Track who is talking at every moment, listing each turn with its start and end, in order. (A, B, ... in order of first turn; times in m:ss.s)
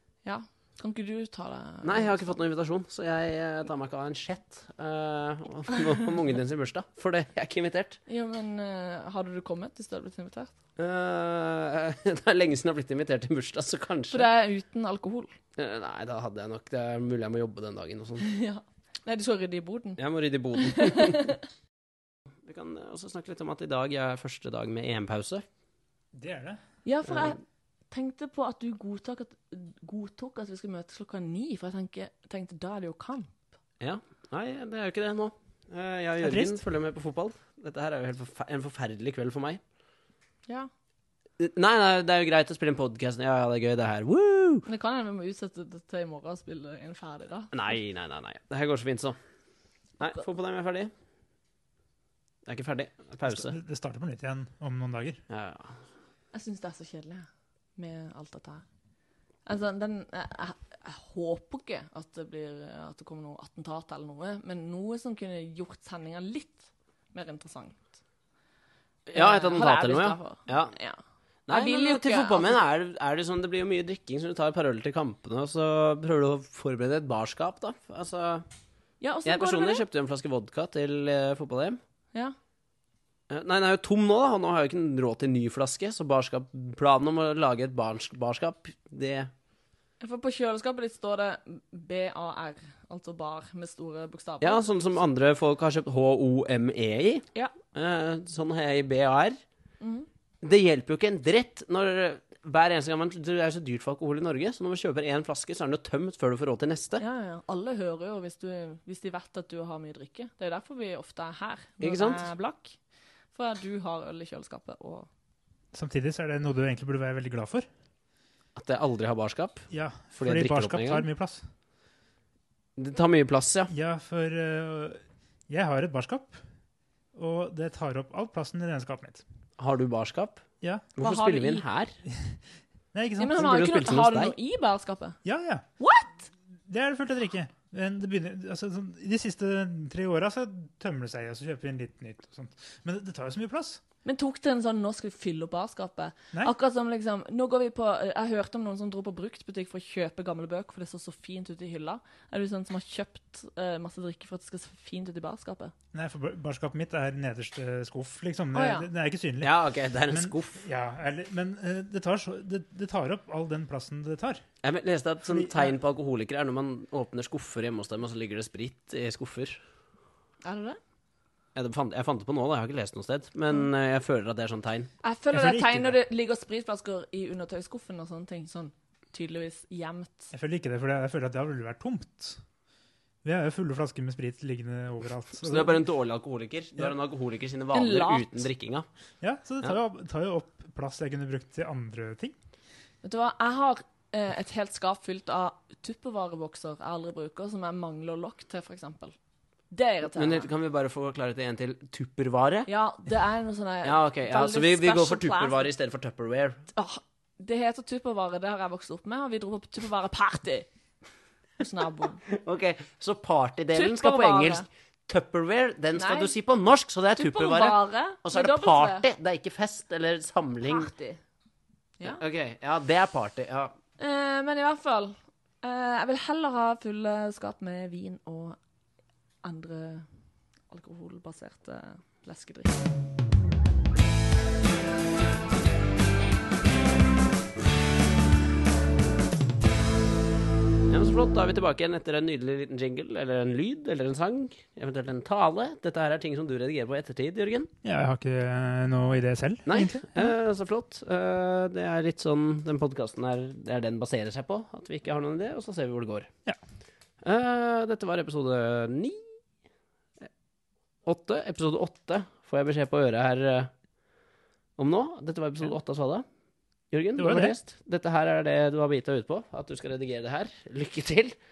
0:00.2-0:02.4 A
0:01.8-0:08.0 B
0:08.1-0:10.5 A
0:10.8-0:14.2 B
0:14.1-0:15.3 A
0:15.6-0:18.2 B
0:18.2-0:20.0 A
0:20.0-0:21.3 B
0:20.6-0:21.4 A
0:22.4-0:25.4 B
0:26.1-0:26.6 C
0:26.8-0:27.4 A
0:27.1-0:27.3 B
0:27.9-0:33.4 A
0:33.8-0:39.6 B
0:36.2-0:36.6 C
0:41.4-0:44.6 B
0:44.7-0:47.7 A
0:47.5-0:49.2 B
0:50.0-0:50.9 B
0:52.4-0:53.5 B
0:53.2-0:55.2 C
0:55.3-0:55.8 B
0:56.3-0:58.6 A
0:59.4-1:07.9 A
1:09.1-1:10.7 B
1:09.1-1:12.6 A
1:11.5-1:18.4 B
1:19.0-1:19.8 A
1:19.2-1:21.8 B
1:23.3-1:29.3 B
1:30.0-1:34.7 A
1:34.4-1:39.4 B
1:39.8-1:40.1 A
1:40.4-1:47.0 B
1:47.0-1:52.8 A
1:51.8-1:52.2 B
1:53.3-1:55.1 A
1:55.7-1:57.6 C
1:58.6-1:59.6 B
1:59.7-2:01.4 C
2:00.2-2:01.0 B
2:02.8-2:03.7 B
2:03.7-2:06.4 C
2:07.1-2:09.2 C
2:09.6-2:10.4 B
2:11.0-2:11.9 B
2:11.0-2:11.6 A
2:12.1-2:12.4 C
2:12.9-2:13.4 C
2:13.2-2:15.2 A
2:13.3-2:14.3 B
2:15.2-2:15.6 C
2:15.8-2:16.2 A
2:16.7-2:23.8 C
2:24.0-2:35.7 A
2:35.9-2:39.5 C
2:38.5-2:38.9 A
2:39.4-2:40.6 B
2:40.1-2:44.4 C
2:44.6-2:49.6 B
2:45.3-2:45.7 C
2:50.4-2:50.8 A
2:51.5-2:54.9 B
2:55.0-3:00.3 A
2:55.3-2:56.0 C
3:00.3-3:02.4 C
3:03.2-3:05.8 C
3:05.4-3:08.8 B
3:07.7-3:08.5 A
3:09.2-3:12.3 C
3:13.0-3:19.1 A
3:19.7-3:20.5 A
3:20.1-3:22.7 B
3:22.7-3:25.7 A
3:23.8-3:26.6 B
3:26.7-3:30.7 A
3:31.6-3:32.2 A
3:32.3-3:40.9 B
3:33.7-3:34.6 A
3:35.9-3:36.3 A
3:37.2-3:39.0 A
3:40.6-3:41.2 A
3:42.0-3:43.7 B
3:44.0-3:48.6 A
3:49.4-3:50.0 A
3:50.7-3:52.8 A
4:00.9-4:07.7 B
4:07.8-4:10.3 C
4:09.6-4:16.3 B
4:17.2-4:19.2 B
4:21.0-4:23.7 B
4:24.8-4:26.2 B
4:26.9-4:31.3 B
4:27.2-4:27.6 C